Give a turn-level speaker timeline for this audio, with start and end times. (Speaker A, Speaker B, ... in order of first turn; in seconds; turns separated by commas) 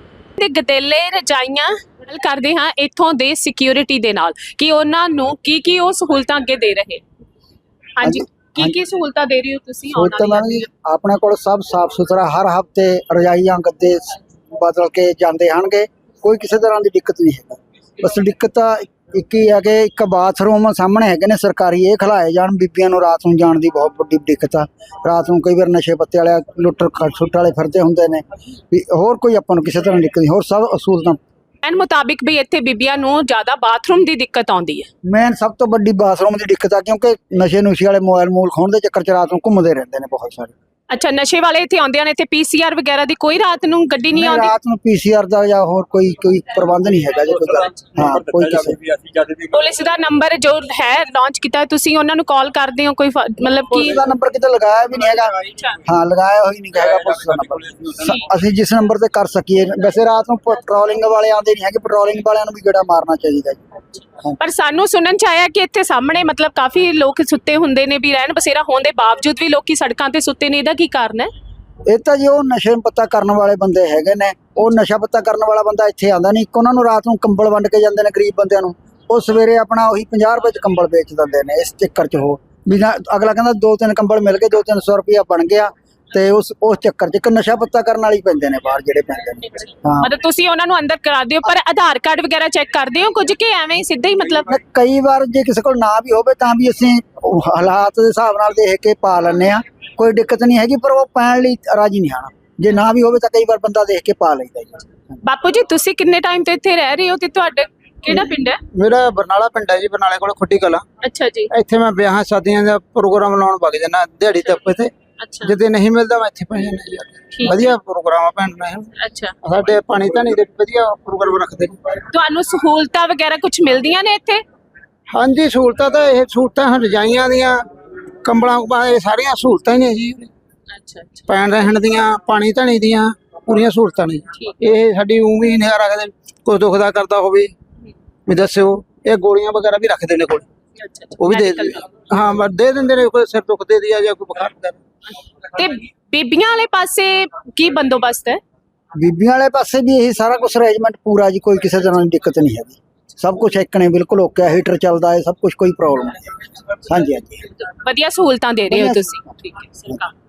Speaker A: 0.4-7.0, Speaker A: 8.0-10.6, Speaker B: 8.0-8.7, Speaker B: 9.9-31.2, Speaker A: 31.6-34.9, Speaker B: 35.0-40.5, Speaker A: 40.9-44.5, Speaker B: 44.1-48.8, Speaker A: 49.5-54.0, Speaker B: 53.7-63.6, Speaker A: 64.4-71.3, Speaker B: 71.9-90.1, Speaker A: 90.0-94.5, Speaker B: 94.5-104.9, Speaker A: 105.2-108.6, Speaker C: 108.8-110.8, Speaker A: 111.0-111.5, Speaker C: 111.5-114.9, Speaker A: 115.2-115.6, Speaker C: 115.4-118.9, Speaker A: 117.3-117.7, Speaker A: 119.0-119.3, Speaker C: 119.4-121.8, Speaker A: 122.1-124.4, Speaker C: 125.1-127.7, Speaker C: 128.2-130.3, Speaker A: 130.7-131.3, Speaker C: 131.3-137.5, Speaker C: 138.3-140.4, Speaker A: 140.8-141.9, Speaker C: 141.2-144.8, Speaker A: 145.5-148.4, Speaker B: 149.0-157.4, Speaker A: 157.6-160.1, Speaker B: 158.7-159.1